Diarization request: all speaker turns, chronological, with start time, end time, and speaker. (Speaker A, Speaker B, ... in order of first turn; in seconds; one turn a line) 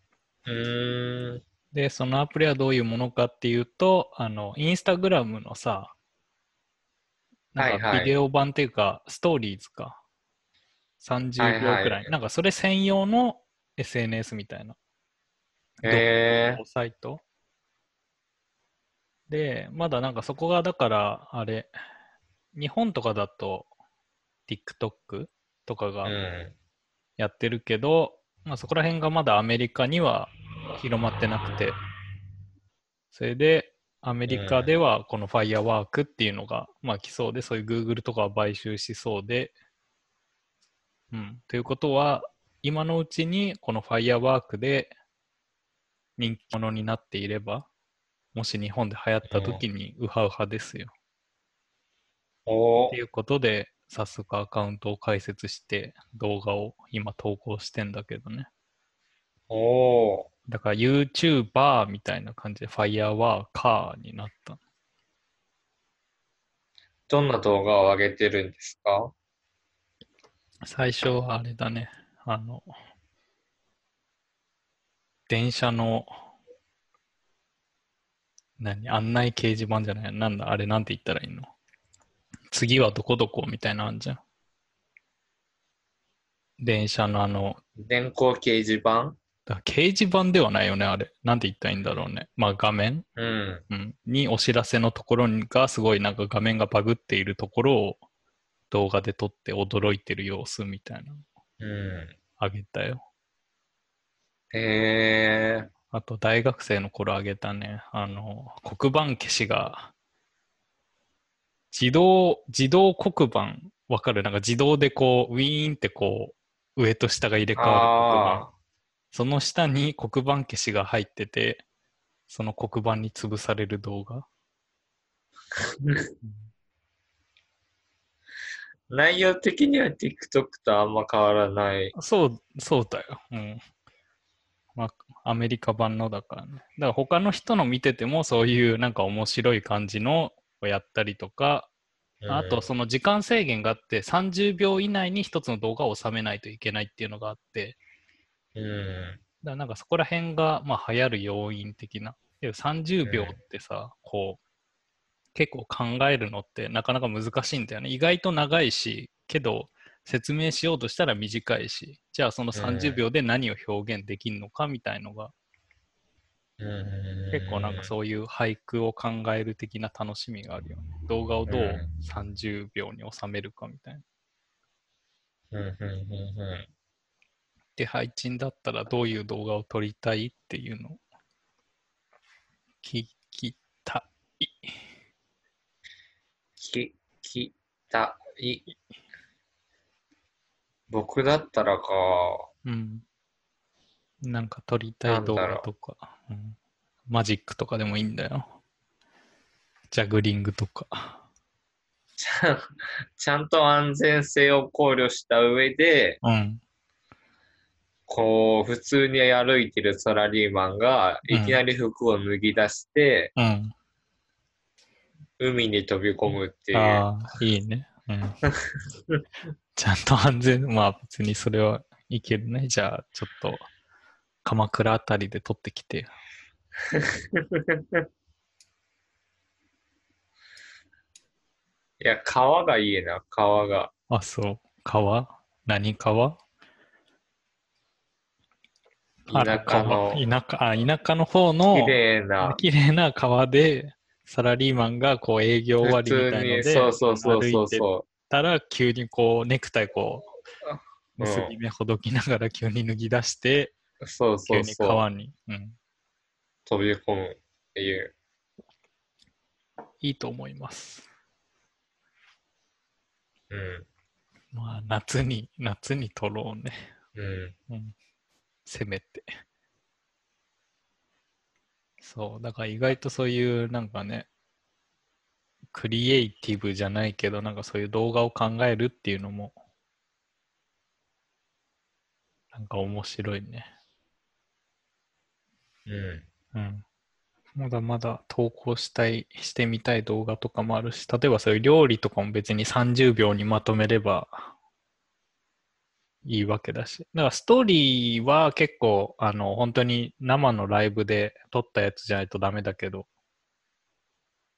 Speaker A: 0.5-1.4
Speaker B: 1.7-5.9
Speaker B: 7.5-10.0
Speaker A: 7.6-8.2
Speaker B: 11.0-14.8
Speaker A: 11.4-12.1
Speaker B: 15.8-17.2
Speaker A: 15.8-16.6
Speaker B: 19.3-21.7
Speaker B: 22.6-23.7
Speaker B: 24.5-26.1
Speaker A: 26.1-26.5
Speaker B: 27.2-31.8
Speaker B: 33.1-39.5
Speaker A: 34.3-34.7
Speaker B: 41.1-44.9
Speaker B: 46.2-47.7
Speaker B: 48.3-50.9
Speaker A: 49.2-49.6
Speaker A: 52.5-53.0
Speaker B: 52.9-58.5
Speaker A: 59.5-60.3
Speaker B: 60.5-64.6
Speaker A: 67.1-69.1
Speaker B: 70.7-72.7
Speaker B: 75.3-76.1
Speaker B: 78.6-81.5
Speaker B: 82.5-84.2
Speaker B: 86.6-87.6
Speaker A: 87.8-89.2
Speaker B: 89.5-93.1
Speaker A: 93.2-93.6
Speaker B: 93.7-98.0
Speaker B: 98.7-101.2
Speaker A: 101.6-102.1
Speaker B: 102.4-103.0
Speaker A: 104.5-105.7
Speaker B: 105.9-109.9
Speaker B: 111.7-118.5
Speaker A: 117.6-118.5
Speaker B: 119.1-121.6
Speaker B: 122.3-124.2
Speaker A: 125.6-126.1
Speaker A: 128.9-131.9
Speaker B: 131.9-133.6
Speaker B: 134.8-141.7
Speaker A: 142.2-142.7
Speaker B: 142.3-147.8
Speaker A: 148.6-149.2
Speaker B: 149.4-154.4
Speaker A: 153.1-153.4
Speaker B: 155.3-165.3
Speaker A: 162.6-163.0
Speaker A: 166.6-167.9
Speaker B: 167.3-174.0
Speaker A: 171.5-171.9
Speaker A: 175.5-176.7
Speaker B: 177.8-181.0
Speaker B: 182.8-184.7
Speaker A: 186.6-188.7
Speaker A: 190.9-192.5
Speaker B: 192.6-193.0
Speaker B: 194.2-196.6
Speaker A: 195.1-195.7
Speaker B: 197.1-198.5
Speaker B: 199.9-201.2
Speaker A: 202.2-206.2
Speaker B: 206.2-206.6
Speaker A: 208.1-213.3
Speaker B: 211.3-211.6
Speaker B: 213.4-213.7
Speaker A: 215.4-217.1
Speaker B: 216.7-218.4
Speaker B: 219.8-223.7
Speaker B: 224.4-226.1
Speaker A: 226.9-228.0
Speaker A: 232.0-233.9
Speaker B: 234.1-236.4
Speaker A: 239.3-240.2
Speaker B: 239.3-250.3
Speaker A: 241.7-242.6
Speaker A: 245.8-248.1
Speaker A: 250.7-251.5
Speaker B: 251.2-253.7
Speaker A: 254.0-255.0
Speaker B: 254.5-255.8
Speaker A: 256.7-258.1
Speaker B: 260.0-261.1
Speaker A: 263.5-263.9
Speaker B: 264.5-266.9
Speaker A: 267.1-267.6
Speaker B: 268.7-269.2
Speaker B: 272.0-274.3
Speaker B: 275.7-279.6
Speaker B: 282.5-283.7
Speaker A: 285.9-286.2
Speaker B: 286.5-286.8
Speaker B: 287.6-294.5
Speaker B: 296.2-303.1